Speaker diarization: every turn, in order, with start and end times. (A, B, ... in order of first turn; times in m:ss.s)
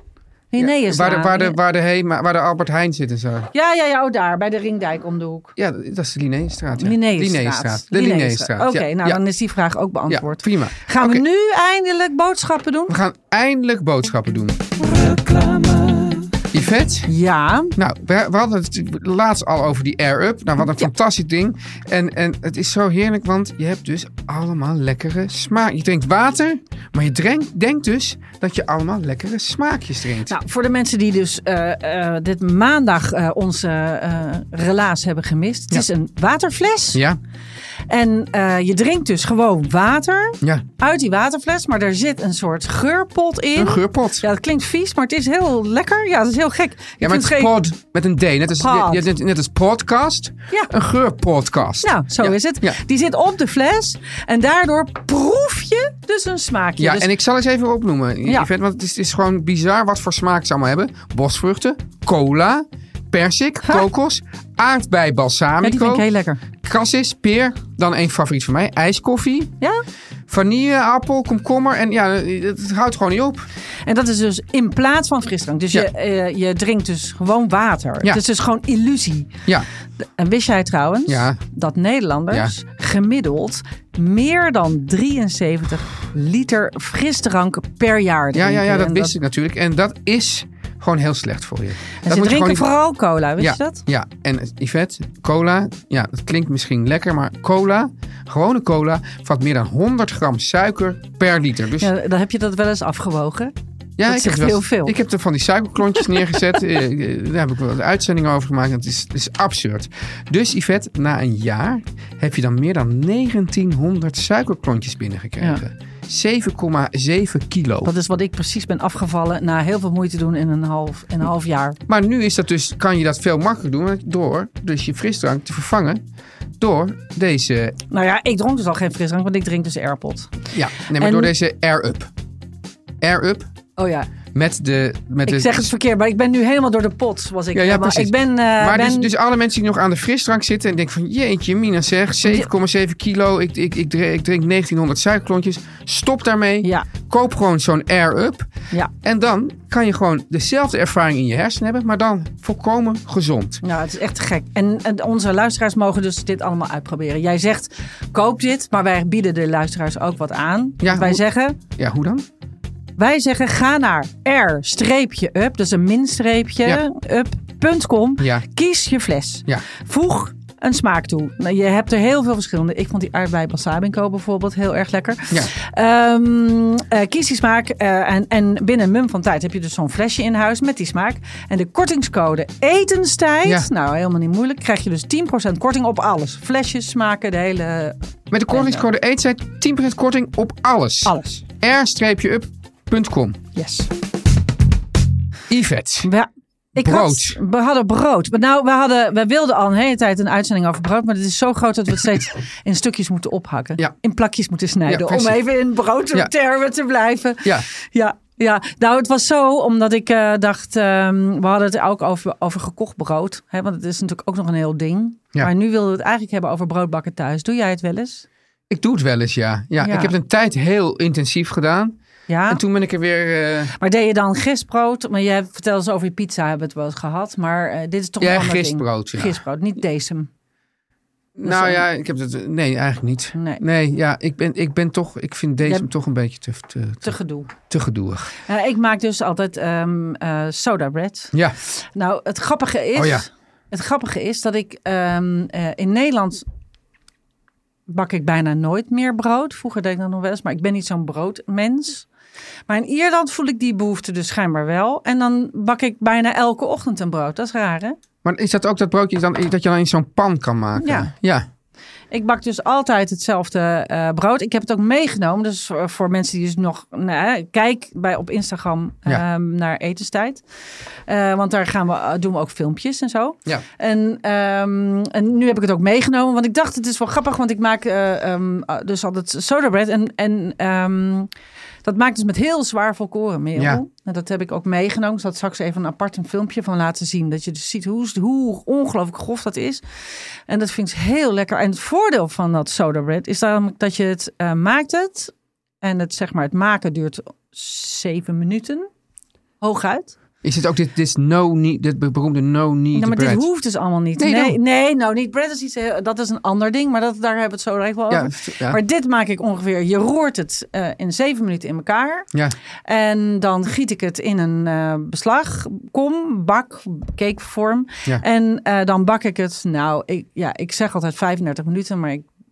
0:00.5-0:01.6 A
0:00.6-0:03.5 B
0:03.5-0:05.5 A
0:05.6-0:09.2 B
0:06.8-0:12.9 A
0:10.1-0:11.2 B
0:12.9-0:14.6 B
0:15.0-0:16.2 A
0:16.5-0:17.1 B
0:17.1-0:17.7 A
0:17.8-0:30.3 B
0:30.3-0:37.0 A
0:36.9-0:37.2 B
0:37.9-0:47.5 A
0:43.6-0:44.2 B
0:47.0-0:52.8 B
0:48.6-0:49.0 A
0:51.8-0:57.1 A
0:56.8-1:06.0 B
1:05.6-1:06.4 A
1:06.6-1:09.5 B
1:10.3-1:13.5 B
1:13.8-1:19.3 A
1:20.2-1:29.1 A
1:21.1-1:21.4 B
1:28.3-1:32.7 B
1:32.0-1:33.8 A
1:33.4-1:41.9 B
1:41.8-1:43.5 A
1:44.0-1:57.9 B
1:44.0-1:44.9 A
1:46.0-1:46.6 A
1:57.8-2:01.8 A
2:01.9-2:06.0 B
2:06.6-2:07.8 B
2:07.9-2:10.4 A
2:10.5-2:12.1 B
2:11.0-2:11.3 A
2:13.0-2:13.5 B
2:13.8-2:14.1 A
2:14.3-2:15.7 B
2:15.2-2:19.1 A
2:17.5-2:28.5 B
2:29.0-2:33.6 B
2:33.6-2:41.6 A
2:40.8-2:41.2 B
2:41.8-2:42.2 B
2:43.0-3:08.0 A
2:48.2-2:48.4 B
3:08.3-3:13.4 B
3:08.5-3:08.8 A
3:11.0-3:11.4 A
3:13.6-3:13.9 A
3:15.5-3:16.1 B
3:16.0-3:38.2 A
3:16.8-3:17.4 B
3:24.9-3:25.4 B
3:38.7-3:42.0 B
3:39.8-3:40.1 A
3:42.3-3:42.6 A
3:42.5-3:43.7 B
3:43.8-3:50.3 A
3:48.2-3:49.4 B
3:51.4-3:57.1 B
3:51.4-3:51.8 A
3:53.3-3:53.6 A
3:57.0-3:57.5 A
3:57.7-3:58.3 B
3:58.5-4:06.4 A
4:03.0-4:03.2 B
4:07.9-4:12.1 A
4:12.7-4:18.0 A
4:18.2-4:21.4 B
4:20.8-4:21.1 A
4:22.1-4:30.4 A
4:31.1-4:41.3 A
4:41.8-4:49.8 A
4:43.6-4:43.8 B
4:50.5-4:58.9 A
4:59.6-5:00.1 A
5:00.4-5:03.4 B
5:02.9-5:12.3 A
5:04.2-5:04.6 B
5:08.1-5:08.8 B
5:12.8-5:22.2 A